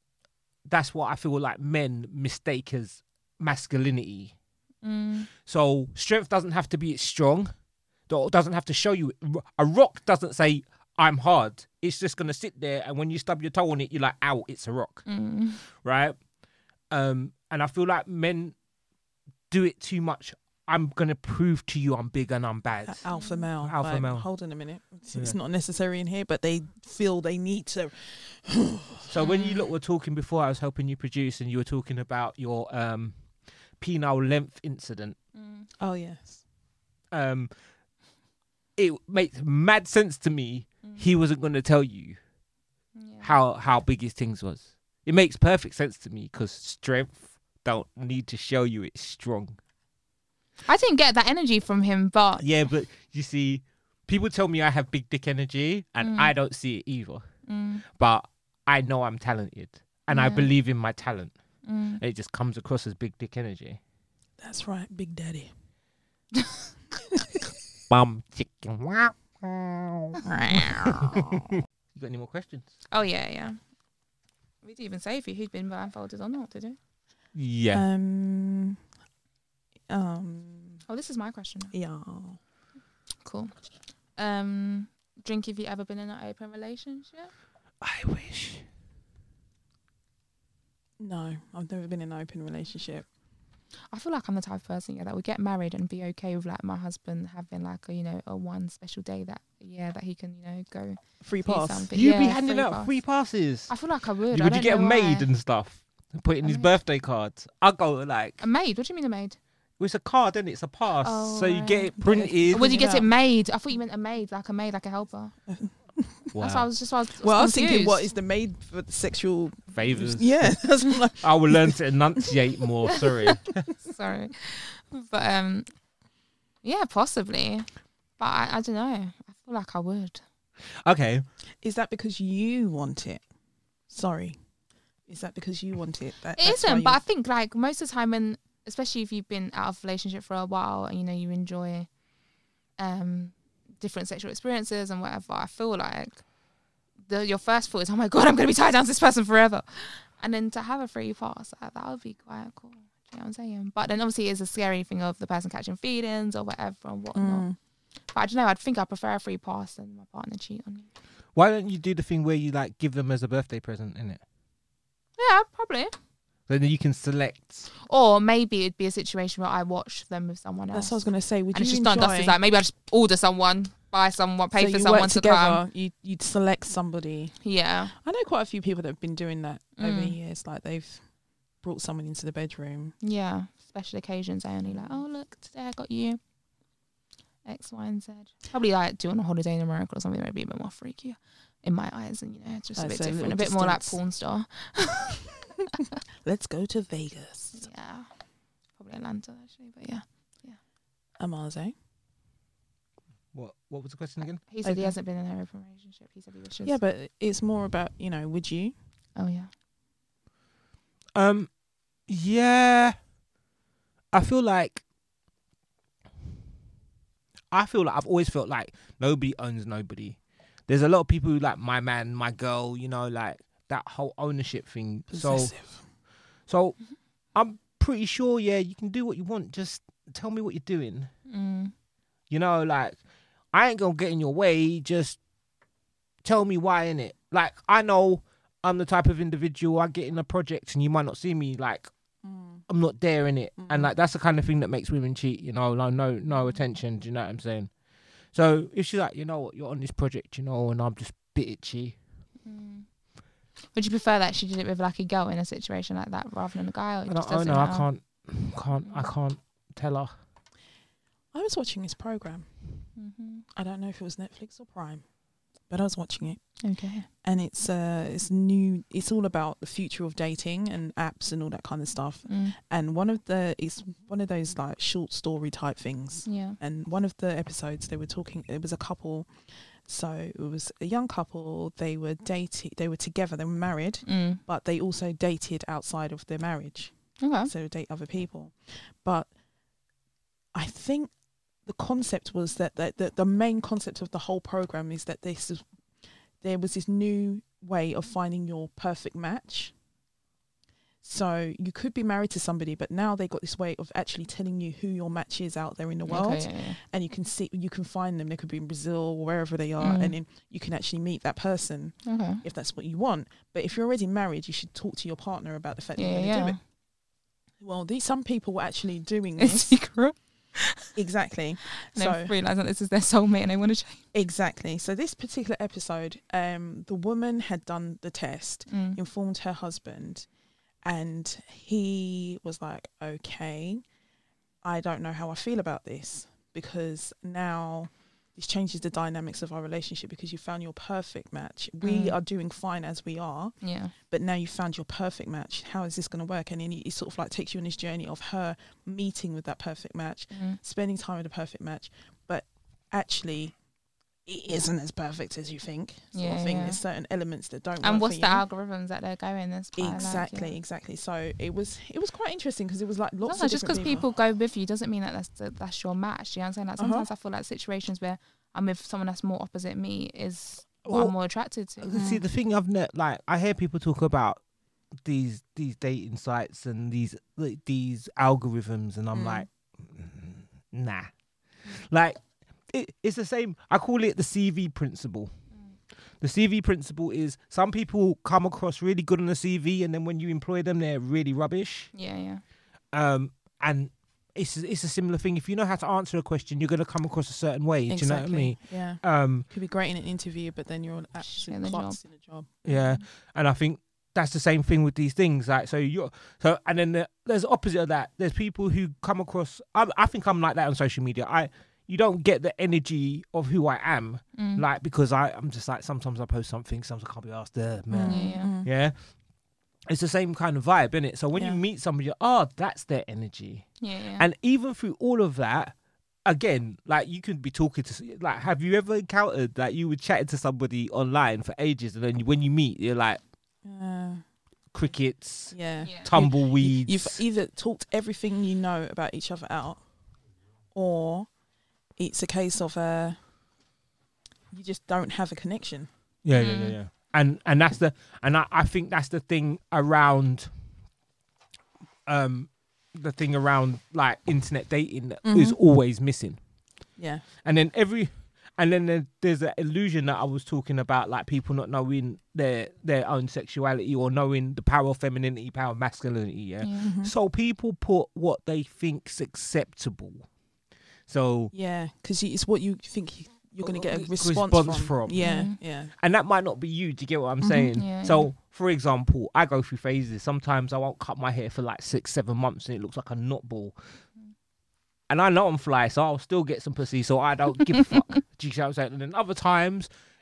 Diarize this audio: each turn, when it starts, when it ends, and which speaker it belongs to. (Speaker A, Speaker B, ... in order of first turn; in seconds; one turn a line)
Speaker A: 0.7-4.3
Speaker B: 4.8-5.3
Speaker A: 5.5-7.5
Speaker A: 8.1-15.1
Speaker B: 15.1-15.6
Speaker A: 15.8-16.1
Speaker A: 16.9-18.5
Speaker A: 19.5-23.0
Speaker C: 22.9-29.5
Speaker B: 23.1-23.5
Speaker A: 23.6-24.3
Speaker A: 29.1-33.1
Speaker A: 33.8-35.1
Speaker B: 35.3-35.7
Speaker C: 35.8-36.4
Speaker A: 37.1-37.5
Speaker A: 38.8-42.2
Speaker B: 43.0-43.3
Speaker A: 43.2-49.6
Speaker B: 50.7-52.4
Speaker A: 52.4-57.2
Speaker B: 56.0-56.3
Speaker B: 57.5-57.8
Speaker A: 58.0-61.3
Speaker B: 60.1-60.5
Speaker B: 61.6-62.0
Speaker A: 62.0-63.8
Speaker C: 64.4-65.5
Speaker A: 67.9-71.2
Speaker C: 70.2-71.5
Speaker A: 71.9-72.7
Speaker B: 72.9-73.6
Speaker B: 74.6-76.8
Speaker A: 77.3-77.8
Speaker C: 77.7-78.8
Speaker C: 79.9-80.8
Speaker B: 80.9-81.7
Speaker C: 81.7-82.4
Speaker B: 83.2-83.5
Speaker B: 84.2-87.3
Speaker A: 87.8-88.6
Speaker C: 91.0-93.1
Speaker B: 93.9-102.9
Speaker C: 101.2-101.9
Speaker A: 101.9-103.7
Speaker B: 103.7-105.3
Speaker A: 104.3-108.4
Speaker B: 106.4-106.7
Speaker B: 108.4-109.4
Speaker A: 109.8-112.8
Speaker B: 111.0-112.0
Speaker C: 112.0-113.1
Speaker B: 112.5-115.3
Speaker C: 115.5-116.3
Speaker A: 116.3-116.7
Speaker B: 116.4-118.1
Speaker C: 117.2-122.3
Speaker A: 119.7-120.7
Speaker A: 121.2-123.7
Speaker B: 122.9-123.2
Speaker B: 123.8-125.7
Speaker B: 126.6-130.2
Speaker A: 130.8-131.2
Speaker C: 131.6-133.2
Speaker C: 133.9-134.4
Speaker C: 135.1-137.0
Speaker B: 136.4-141.9
Speaker B: 142.8-146.2
Speaker B: 147.1-157.5
Speaker C: 157.1-157.6
Speaker B: 158.1-160.9
Speaker A: 161.3-164.2
Speaker B: 165.2-165.9
Speaker A: 166.5-167.7
Speaker B: 167.8-175.6
Speaker C: 170.7-172.4
Speaker C: 174.5-177.3
Speaker B: 177.4-177.9
Speaker C: 177.9-181.0
Speaker B: 179.8-180.2
Speaker C: 181.6-182.9
Speaker B: 183.0-186.2
Speaker C: 184.6-185.0
Speaker B: 187.4-195.2
Speaker C: 192.8-194.0
Speaker C: 196.2-197.6
Speaker B: 197.5-198.1
Speaker B: 198.8-200.6
Speaker C: 201.2-201.7
Speaker A: 203.3-204.4
Speaker B: 204.5-206.8
Speaker C: 204.6-204.9
Speaker C: 206.6-208.7
Speaker B: 209.2-209.5
Speaker A: 211.1-211.5
Speaker A: 212.1-212.9
Speaker A: 214.1-214.8
Speaker A: 217.5-220.2
Speaker A: 220.7-225.5
Speaker C: 225.1-225.8
Speaker A: 226.5-226.8
Speaker A: 227.3-231.1
Speaker B: 231.3-231.7
Speaker A: 232.3-233.0
Speaker A: 233.5-235.2
Speaker A: 236.2-241.9
Speaker C: 242.2-242.6
Speaker A: 242.7-247.7
Speaker C: 243.6-243.9
Speaker A: 248.3-251.9
Speaker B: 252.4-252.8
Speaker B: 253.7-257.9
Speaker A: 257.1-260.1
Speaker B: 258.8-259.1
Speaker C: 261.3-262.5
Speaker B: 262.9-263.4
Speaker C: 263.5-265.0
Speaker C: 265.7-266.4
Speaker B: 266.6-267.1
Speaker C: 267.2-286.9
Speaker B: 272.3-272.6
Speaker B: 276.2-276.6
Speaker B: 284.1-284.4
Speaker B: 287.2-287.5
Speaker C: 287.4-289.3
Speaker C: 290.5-291.1
Speaker C: 291.6-295.7
Speaker C: 296.4-299.7
Speaker C: 301.0-316.6
Speaker B: 306.1-306.8
Speaker B: 309.8-310.1
Speaker B: 312.0-312.4
Speaker B: 315.9-316.6
Speaker C: 317.6-319.7
Speaker B: 319.4-320.9
Speaker C: 320.9-322.3
Speaker B: 321.8-324.0
Speaker C: 324.1-330.2
Speaker B: 328.7-329.0
Speaker C: 330.8-333.8
Speaker C: 334.6-353.5
Speaker B: 341.8-342.1
Speaker B: 343.6-343.9
Speaker B: 350.3-350.6
Speaker C: 354.2-358.4
Speaker B: 356.1-356.8
Speaker B: 357.8-360.5
Speaker C: 359.8-364.1
Speaker B: 363.2-371.9
Speaker C: 366.8-367.1
Speaker A: 370.9-371.1
Speaker A: 371.8-374.4
Speaker C: 371.9-372.2
Speaker A: 375.0-381.1
Speaker C: 379.1-379.5
Speaker A: 381.8-382.2
Speaker A: 382.7-385.3
Speaker A: 386.2-391.9
Speaker B: 391.9-392.4
Speaker A: 392.9-399.4
Speaker C: 397.9-402.5
Speaker B: 401.3-402.0
Speaker A: 402.6-418.9
Speaker B: 402.7-403.0
Speaker B: 414.4-414.6
Speaker C: 417.9-418.7
Speaker B: 418.0-418.5
Speaker A: 419.9-425.7
Speaker C: 421.3-421.6
Speaker B: 423.8-424.2
Speaker A: 426.2-433.2
Speaker C: 433.6-434.2
Speaker A: 434.7-437.2
Speaker C: 435.5-439.8
Speaker C: 440.7-441.3
Speaker C: 442.0-443.2
Speaker C: 444.5-445.9
Speaker A: 446.2-450.5
Speaker B: 446.3-446.8
Speaker A: 452.1-456.4
Speaker C: 455.2-455.6
Speaker C: 457.0-457.2
Speaker A: 457.4-470.2
Speaker C: 466.8-467.1
Speaker A: 471.1-471.5
Speaker C: 471.5-475.9
Speaker A: 473.6-483.8
Speaker B: 475.2-475.6
Speaker C: 477.4-477.8
Speaker B: 477.7-478.3
Speaker A: 485.1-489.9